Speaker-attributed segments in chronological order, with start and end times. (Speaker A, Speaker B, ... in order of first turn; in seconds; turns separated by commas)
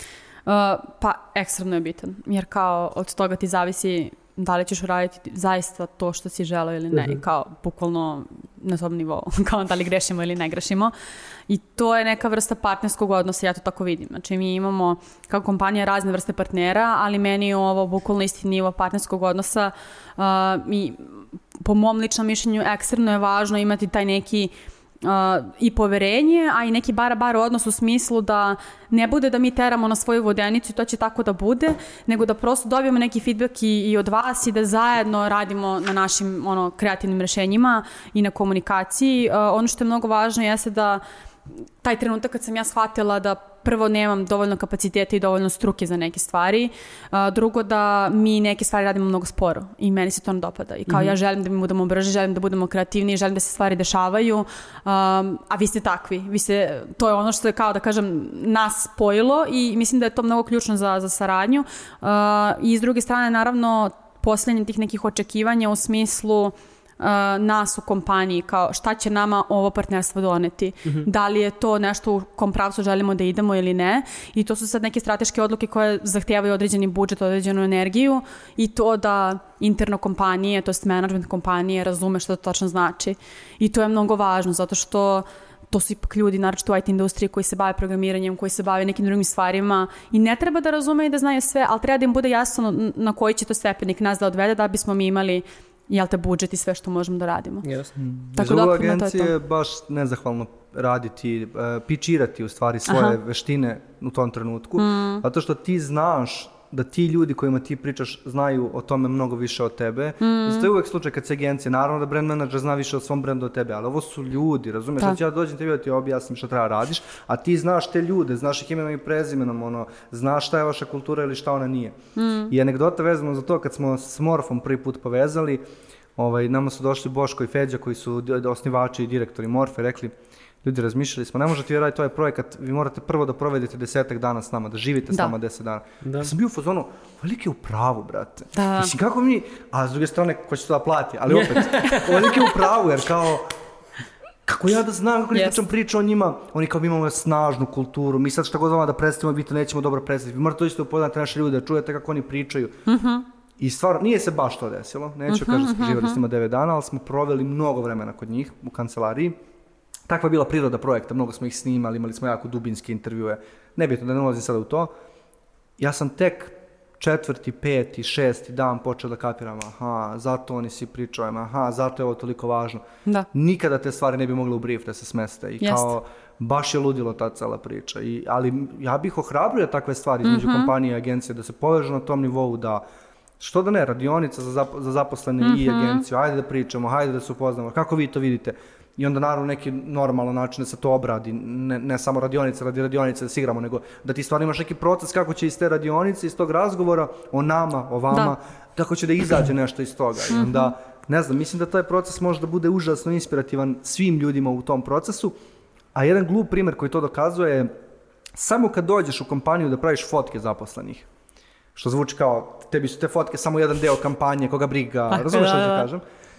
Speaker A: 0.5-10.9, Speaker B: 6.9-7.2, Speaker A: 11.5-41.0, Speaker A: 41.8-97.6, Speaker B: 50.9-51.1, Speaker B: 97.6-97.9, Speaker C: 98.0-122.0, Speaker A: 98.4-99.3, Speaker A: 102.9-103.2, Speaker A: 104.8-105.2, Speaker A: 110.2-110.7, Speaker A: 122.2-122.5, Speaker C: 122.5-125.6, Speaker C: 126.2-130.1, Speaker C: 130.6-143.4, Speaker B: 136.1-136.3, Speaker A: 138.6-138.9, Speaker B: 141.3-142.4, Speaker C: 144.4-152.7, Speaker A: 145.3-145.6, Speaker A: 152.9-153.2, Speaker C: 153.6-159.4, Speaker A: 155.3-156.2, Speaker C: 160.1-164.9, Speaker C: 165.8-182.8, Speaker A: 175.6-175.9, Speaker A: 180.2-180.7, Speaker C: 183.4-205.4, Speaker A: 185.4-186.0, Speaker A: 200.3-200.7, Speaker C: 205.9-207.7, Speaker C: 208.3-211.1, Speaker C: 211.7-216.0, Speaker A: 215.1-215.9